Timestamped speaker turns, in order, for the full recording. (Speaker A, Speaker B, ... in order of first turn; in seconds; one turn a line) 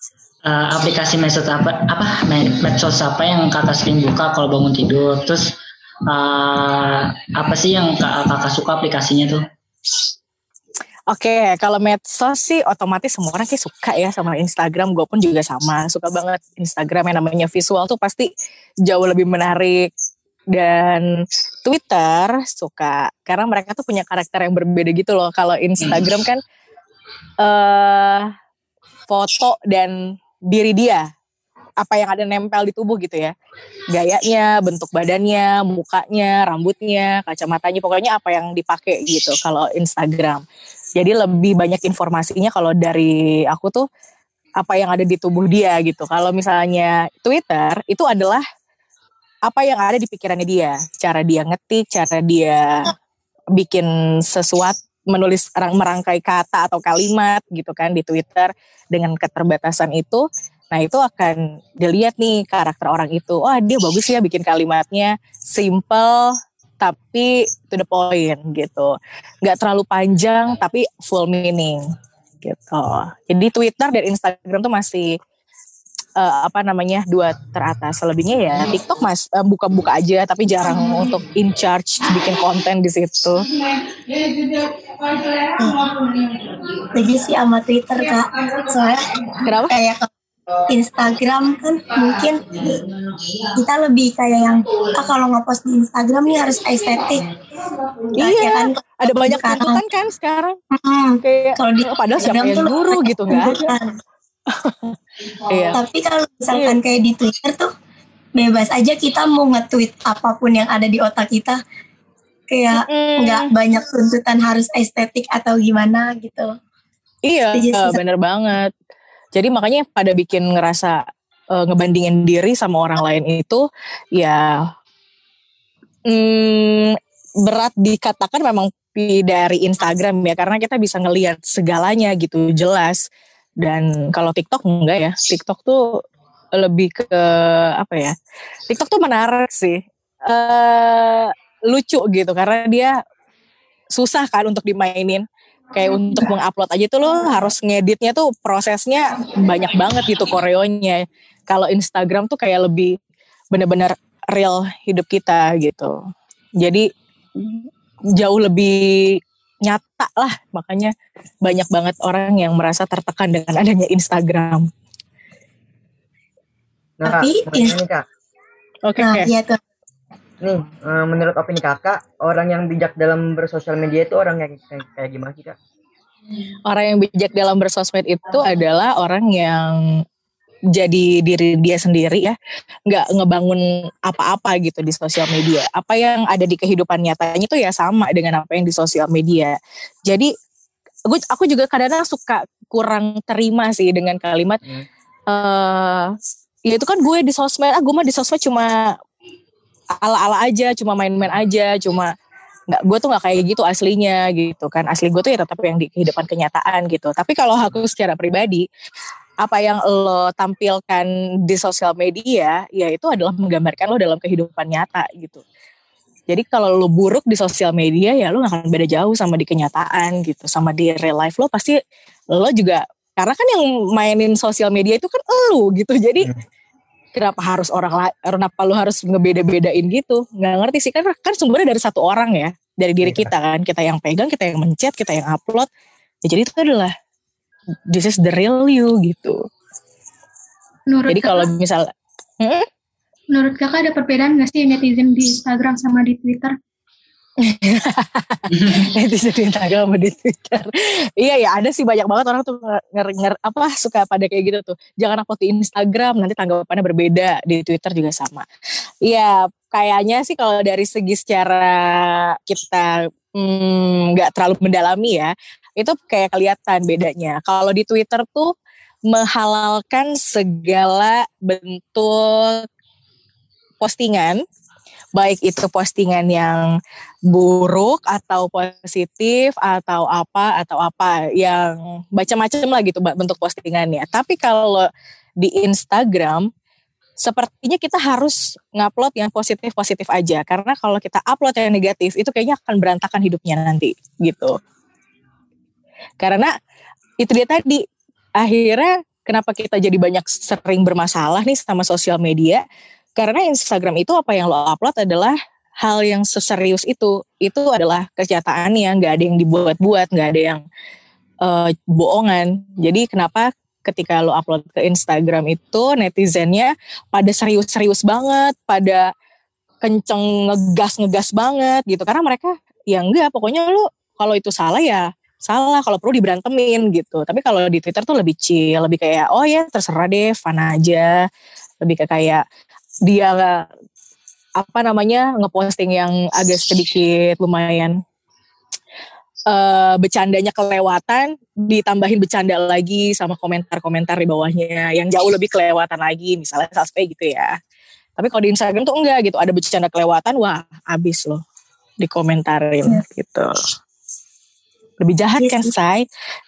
Speaker A: 0.5-9.4
Speaker B: 11.1-18.3
Speaker B: 18.8-19.9
Speaker B: 20.5-26.4
Speaker B: 27.4-28.3
Speaker B: 29.1-31.1
Speaker B: 31.8-33.3
Speaker B: 33.9-40.4
Speaker B: 41.0-43.9
Speaker B: 44.6-48.4
Speaker B: 49.5-52.9
Speaker B: 53.5-71.8
Speaker B: 72.4-75.2
Speaker B: 76.2-83.5
Speaker C: 85.6-85.8
Speaker C: 86.9-90.1
Speaker B: 89.5-89.7
Speaker C: 90.7-92.7
Speaker C: 93.5-97.2
Speaker C: 98.2-99.8
Speaker B: 98.2-100.6
Speaker C: 100.7-103.9
Speaker B: 101.2-103.7
Speaker B: 104.5-105.8
Speaker C: 105.7-107.7
Speaker C: 108.4-111.6
Speaker C: 112.5-116.5
Speaker B: 112.7-113.5
Speaker B: 117.2-118.7
Speaker C: 117.5-118.0
Speaker B: 119.3-121.0
Speaker B: 121.5-124.7
Speaker B: 126.1-133.0
Speaker B: 133.6-136.0
Speaker B: 136.5-138.1
Speaker B: 138.7-142.9
Speaker B: 143.9-153.0
Speaker B: 153.5-156.0
Speaker B: 156.6-164.7
Speaker D: 167.0-168.0
Speaker C: 167.0-167.8
Speaker B: 168.8-169.3
Speaker C: 169.0-169.6
Speaker D: 170.4-175.6
Speaker B: 176.7-180.0
Speaker B: 180.7-182.3
Speaker B: 182.9-190.3
Speaker B: 191.1-194.6
Speaker B: 195.3-198.9
Speaker B: 200.0-202.1
Speaker B: 202.7-208.6
Speaker B: 209.4-215.4
Speaker B: 216.3-221.8
Speaker B: 222.3-226.3
Speaker B: 227.1-235.7
Speaker D: 233.0-233.3
Speaker B: 236.2-236.9
Speaker B: 237.9-239.4
Speaker E: 240.9-241.5
Speaker B: 241.1-241.9
Speaker B: 242.4-242.7
Speaker E: 243.3-246.5
Speaker B: 247.4-258.4
Speaker A: 248.6-248.9
Speaker B: 259.0-268.5
Speaker B: 269.1-272.7
Speaker B: 273.8-274.4
Speaker B: 275.1-276.7
Speaker B: 277.3-284.9
Speaker B: 285.4-286.5
Speaker B: 287.2-294.6
Speaker B: 296.2-296.5
Speaker B: 297.2-297.8
Speaker B: 298.4-302.6
Speaker B: 303.2-310.6
Speaker B: 311.4-319.1
Speaker B: 319.8-331.2
Speaker B: 331.8-332.4
Speaker B: 333.1-333.7
Speaker B: 334.6-338.0
Speaker B: 339.5-347.6
Speaker B: 348.2-351.4
Speaker B: 352.0-353.5
Speaker B: 355.0-356.1
Speaker C: 355.4-355.7